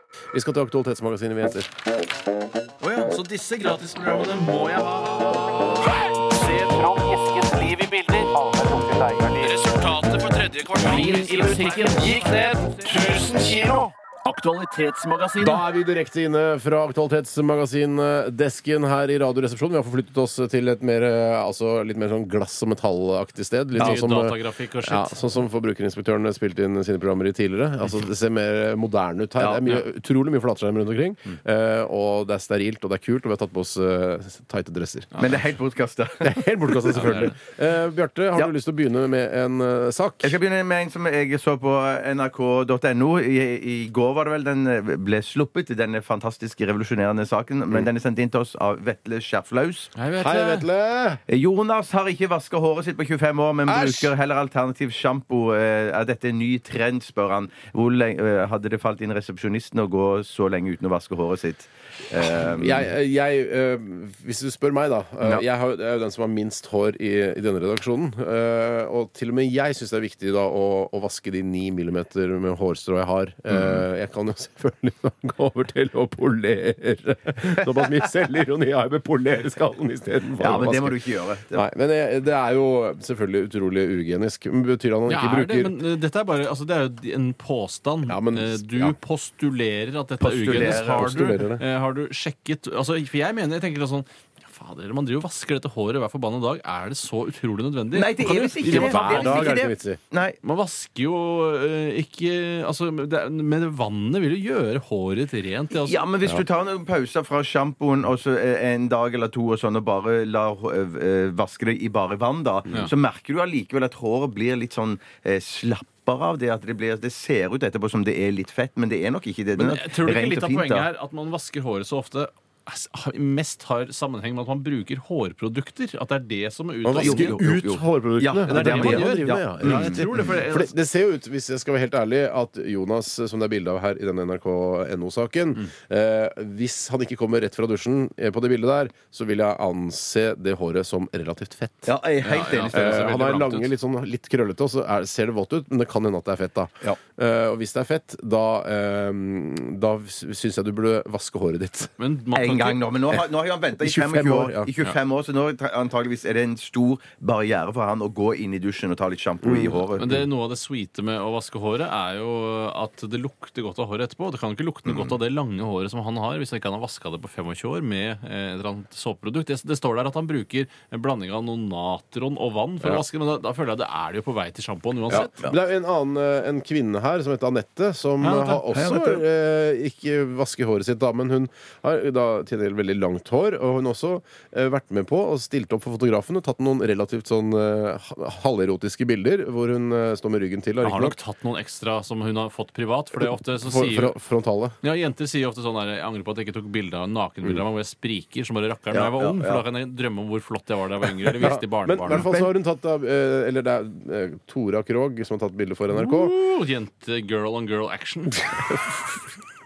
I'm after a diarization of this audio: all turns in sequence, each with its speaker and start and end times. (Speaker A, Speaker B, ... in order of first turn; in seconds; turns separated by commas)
Speaker A: 0.3-1.7, Speaker B: 2.8-15.6, Speaker A: 15.4-35.2, Speaker B: 23.8-25.3, Speaker C: 29.4-29.8, Speaker B: 35.1-35.5, Speaker C: 35.2-37.2, Speaker A: 36.2-40.4, Speaker B: 36.9-37.3, Speaker C: 40.2-49.9, Speaker B: 49.9-50.7, Speaker A: 50.2-51.2, Speaker C: 51.3-62.9, Speaker A: 53.6-54.1, Speaker A: 62.1-85.8, Speaker C: 73.5-73.8, Speaker C: 80.4-81.7, Speaker B: 85.1-99.6, Speaker A: 88.0-89.0, Speaker C: 90.2-91.1, Speaker A: 90.3-91.6, Speaker C: 97.9-100.4, Speaker A: 98.6-100.0, Speaker B: 100.4-106.0, Speaker C: 105.7-120.9, Speaker B: 119.6-127.4, Speaker A: 126.8-141.9, Speaker C: 126.9-130.2, Speaker B: 128.4-130.8, Speaker C: 141.8-142.8, Speaker B: 142.2-143.7, Speaker A: 142.7-151.9, Speaker B: 152.0-152.8, Speaker C: 152.3-160.1, Speaker A: 153.8-154.7, Speaker A: 159.4-160.3, Speaker B: 159.9-175.3, Speaker C: 164.9-165.1, Speaker A: 175.1-191.2, Speaker B: 178.2-178.7, Speaker C: 178.7-179.2, Speaker B: 190.8-194.2, Speaker A: 193.1-194.8, Speaker B: 194.8-202.3, Speaker C: 198.9-199.6, Speaker A: 201.3-206.3, Speaker C: 202.1-202.5, Speaker B: 205.9-209.0